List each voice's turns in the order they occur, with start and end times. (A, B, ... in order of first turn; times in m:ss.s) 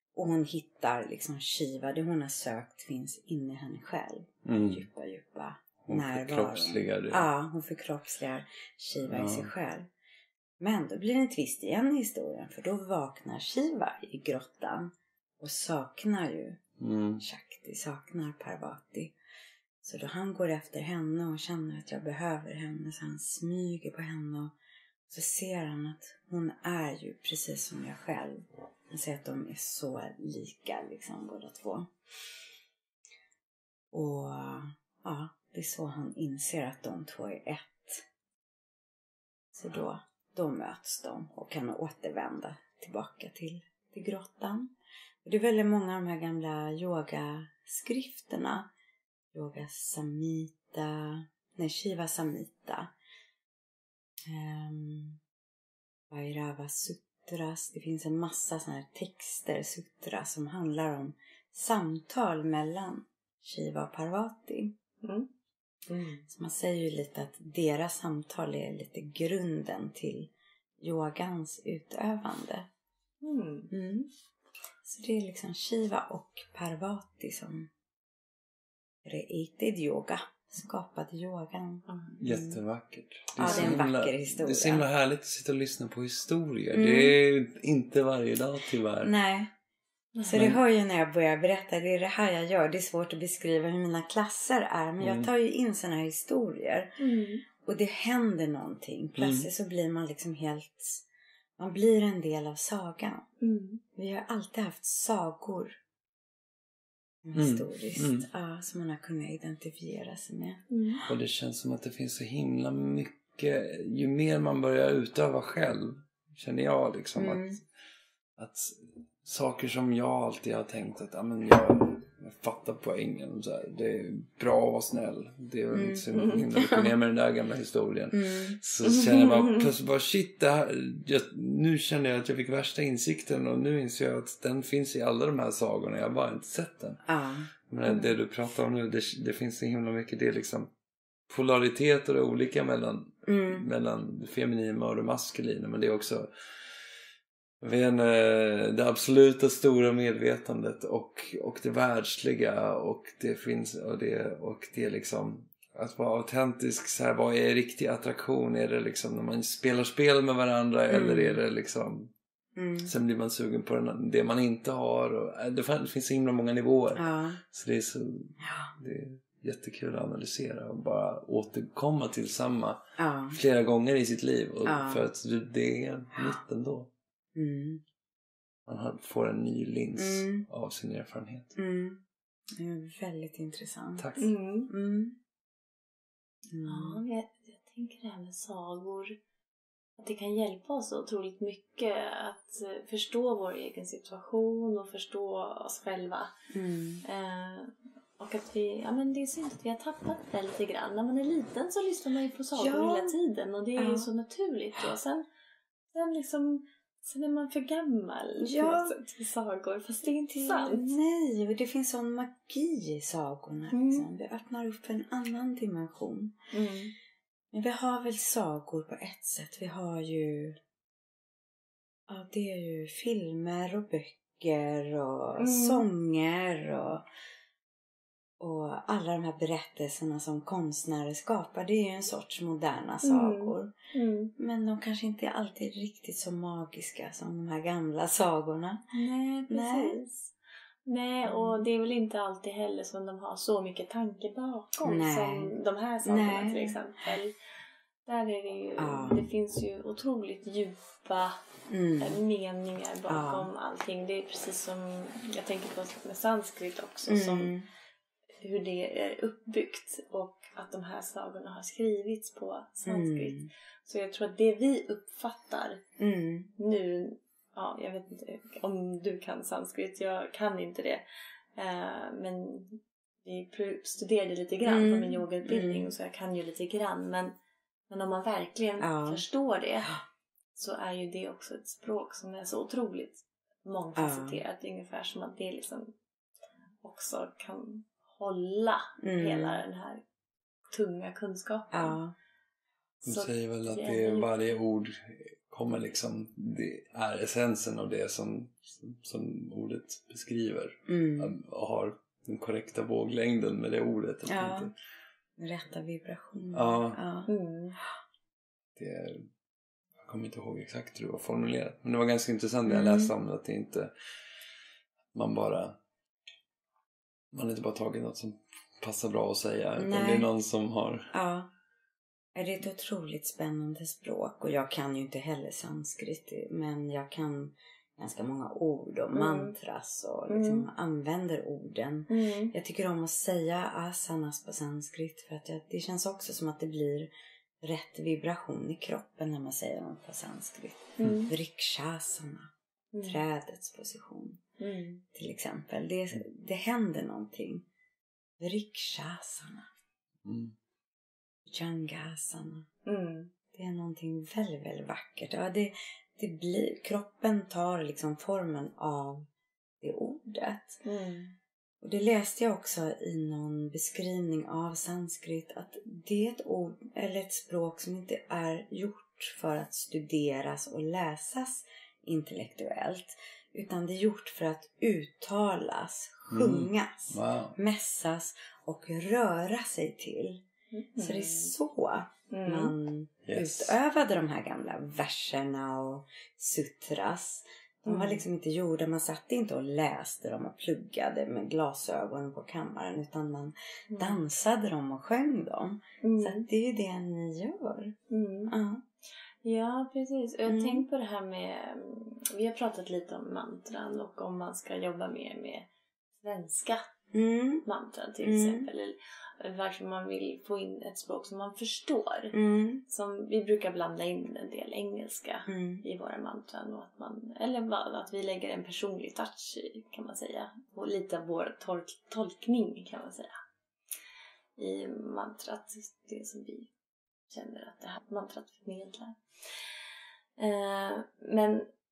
0:00.2-0:09.9 A
0:04.5-0:04.9 B
0:05.9-0:07.3 B
0:09.0-0:09.5 B
0:10.6-0:16.6 A
0:16.8-0:17.2 B
0:17.2-0:19.2 A
0:19.8-0:24.6 A
0:25.1-0:31.9 A
0:33.9-0:38.1 A
0:39.5-0:44.7 A
0:45.2-0:48.7 A
0:49.3-0:52.9 A
0:54.3-0:55.2 A
0:56.1-1:04.8 A
1:05.0-1:05.3 C
1:05.9-1:06.2 C
1:06.2-1:12.7 A
1:13.2-1:13.7 C
1:13.7-1:14.1 A
1:14.8-1:17.7 A
1:19.0-1:22.6 A
1:21.9-1:22.2 C
1:22.2-1:29.1 B
1:23.4-1:24.9 A
1:23.4-1:23.8 C
1:26.7-1:27.2 A
1:29.0-1:29.5 A
1:30.2-1:30.4 C
1:30.2-1:37.0 A
1:30.3-1:30.6 B
1:35.0-1:35.3 B
1:37.0-1:37.4 C
1:37.6-1:41.0 A
1:39.2-1:39.5 B
1:41.6-1:43.3 A
1:43.4-1:43.8 C
1:44.0-1:45.8 A
1:47.2-1:51.0 A
1:47.4-1:48.3 B
1:50.7-1:51.0 C
1:51.1-1:57.6 B
1:57.2-1:57.6 A
1:58.4-2:17.0 B
2:05.7-2:06.9 A
2:08.1-2:08.6 A
2:08.8-2:09.7 C
2:17.1-2:17.5 A
2:17.7-2:20.7 B
2:17.9-2:18.2 C
2:21.3-2:26.3 B
2:23.3-2:23.6 A
2:27.6-2:42.1 B
2:40.9-2:41.4 A
2:42.6-2:42.9 A
2:42.8-2:56.9 B
2:47.0-2:47.4 A
2:53.0-2:53.4 A
2:54.6-2:55.0 A
2:57.3-2:57.8 A
2:58.7-3:01.5 B
3:00.0-3:00.5 A
3:01.6-3:02.0 A
3:02.5-3:05.2 A
3:04.0-3:04.2 B
3:04.2-3:04.7 C
3:06.5-3:07.0 A
3:06.7-3:09.2 C
3:10.0-3:16.3 C
3:16.5-3:17.0 A
3:17.0-3:25.2 C
3:22.6-3:23.2 A
3:23.8-3:24.1 A
3:25.9-3:30.9 C
3:28.4-3:29.0 A
3:30.3-3:36.4 A
3:33.7-3:34.1 C
3:36.5-3:36.9 C
3:37.5-3:40.6 A
3:42.1-3:47.0 A
3:45.4-3:45.8 C
3:48.4-3:53.7 A
3:53.0-3:54.3 C
3:54.4-3:58.8 A
3:58.9-4:00.3 C
3:59.5-4:00.0 A
4:00.9-4:07.3 C
4:01.2-4:01.6 A
4:04.8-4:06.8 A
4:08.1-4:11.4 C
4:08.8-4:09.2 A
4:11.7-4:12.2 A
4:12.0-4:17.5 C
4:13.1-4:13.5 A
4:17.1-4:17.7 A
4:18.4-4:25.8 C
4:22.9-4:23.5 A
4:26.0-4:26.5 A
4:26.6-4:31.0 C
4:31.6-4:37.4 C
4:34.6-4:35.9 A
4:37.9-4:39.9 C
4:38.8-4:39.2 A
4:40.6-4:45.9 C
4:44.0-4:44.4 A
4:46.8-4:50.0 C
4:49.0-4:49.6 A
4:50.7-4:52.0 C
4:51.7-4:52.1 A
4:53.0-4:54.3 C
4:53.1-5:04.7 B
5:00.9-5:01.4 A
5:04.3-5:04.7 A
5:05.4-5:07.3 A
5:06.5-5:07.0 B
5:07.3-5:07.8 C
5:08.8-5:09.3 B
5:10.0-5:13.9 B
5:12.7-5:13.1 A
5:15.1-5:15.8 B
5:17.3-5:21.1 B
5:19.8-5:20.3 A
5:21.1-5:21.5 A
5:22.4-5:42.5 A
5:29.1-5:29.6 C
5:30.3-5:30.7 C
5:32.1-5:32.5 C
5:41.0-5:41.3 C
5:42.9-5:43.2 C
5:43.0-5:44.4 A
5:44.6-5:45.0 C
5:45.1-5:47.6 A
5:48.4-5:49.7 A
5:50.2-5:50.5 B
5:51.5-5:52.7 A
5:52.9-5:53.3 C
5:53.5-5:59.3 A
5:59.8-6:00.8 A
6:00.8-6:01.4 C
6:01.8-6:20.4 A
6:16.3-6:17.6 B
6:20.7-6:21.5 C
6:21.0-6:38.8 A
6:22.3-6:22.7 C
6:23.3-6:23.8 B
6:27.9-6:28.2 C
6:33.9-6:34.2 C
6:36.0-6:36.5 C
6:38.1-6:38.5 C
6:39.4-6:45.7 C
6:40.5-6:40.9 A
6:46.2-6:46.9 C
6:47.1-6:47.7 A
6:47.6-6:52.4 C
6:48.2-6:48.7 A
6:52.3-6:52.8 A
6:52.9-7:03.4 C
6:55.5-6:55.8 A
7:04.6-7:06.7 C
7:07.3-7:09.2 C
7:10.4-7:11.7 C